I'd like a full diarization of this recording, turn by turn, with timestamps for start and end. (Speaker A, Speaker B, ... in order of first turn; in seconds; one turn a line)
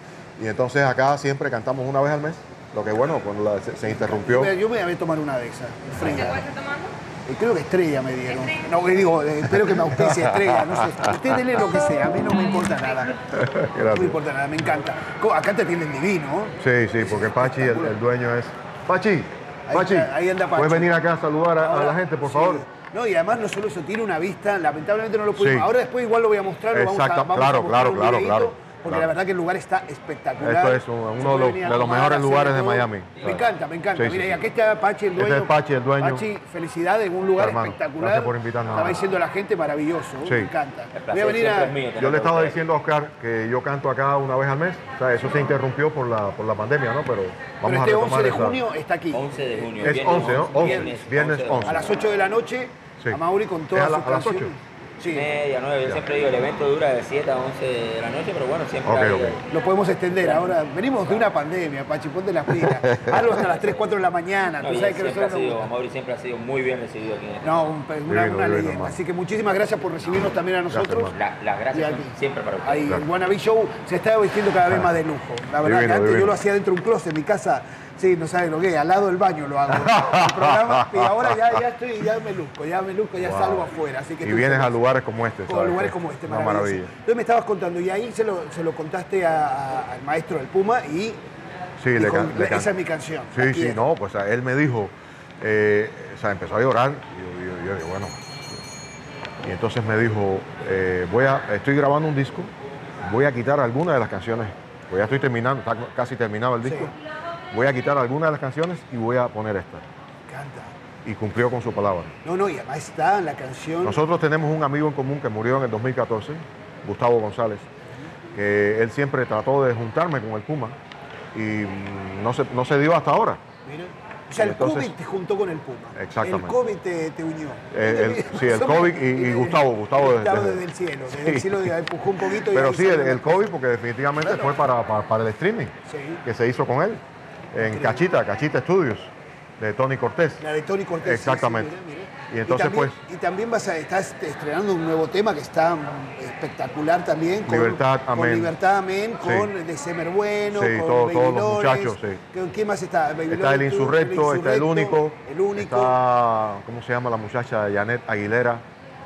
Speaker A: 0.4-4.5
Speaker B: 3.9-6.7
Speaker B: 7.3-13.3
Speaker A: 10.0-11.1
Speaker A: 13.3-14.2
Speaker B: 13.9-17.9
Speaker A: 16.6-22.6
Speaker B: 19.7-20.9
Speaker B: 21.6-41.7
Speaker A: 25.3-25.7
Speaker A: 26.7-29.1
Speaker A: 30.4-33.4
Speaker A: 33.9-34.4
Speaker A: 35.2-36.2
Speaker A: 37.4-39.0
Speaker A: 40.2-40.5
Speaker C: 40.9-42.6
Speaker A: 42.0-48.6
Speaker B: 47.6-50.9
Speaker C: 49.1-51.9
Speaker A: 49.8-51.8
Speaker B: 51.6-55.2
Speaker A: 53.7-54.5
Speaker C: 55.0-59.4
Speaker A: 58.8-59.4
Speaker B: 59.5-65.7
Speaker A: 62.5-63.2
Speaker C: 63.2-63.9
Speaker C: 64.6-67.6
Speaker B: 67.4-71.1
Speaker A: 68.1-69.0
Speaker A: 70.7-71.1
Speaker C: 71.1-72.9
Speaker B: 71.7-72.1
Speaker B: 72.6-84.8
Speaker A: 75.6-76.4
Speaker A: 79.7-81.3
Speaker A: 83.2-83.7
Speaker A: 84.2-86.9
Speaker B: 85.5-91.2
Speaker A: 91.8-92.7
Speaker B: 92.0-93.8
Speaker A: 93.3-98.6
Speaker A: 99.4-106.9
Speaker B: 106.6-106.9
Speaker A: 107.5-109.8
Speaker B: 110.3-110.7
Speaker A: 111.0-112.1
Speaker B: 112.2-114.0
Speaker A: 113.8-117.7
Speaker A: 118.3-120.8
Speaker A: 121.3-123.4
Speaker B: 123.7-133.5
Speaker A: 124.4-124.9
Speaker A: 125.9-126.5
Speaker A: 127.7-131.7
Speaker A: 132.5-135.7
Speaker B: 134.2-134.5
Speaker B: 135.9-136.2
Speaker A: 136.2-137.0
Speaker A: 137.5-140.4
Speaker B: 137.6-138.0
Speaker B: 140.4-156.0
Speaker A: 141.0-141.7
Speaker A: 142.3-143.0
Speaker A: 147.4-148.5
Speaker A: 149.2-149.5
Speaker A: 150.5-152.2
Speaker A: 153.3-158.6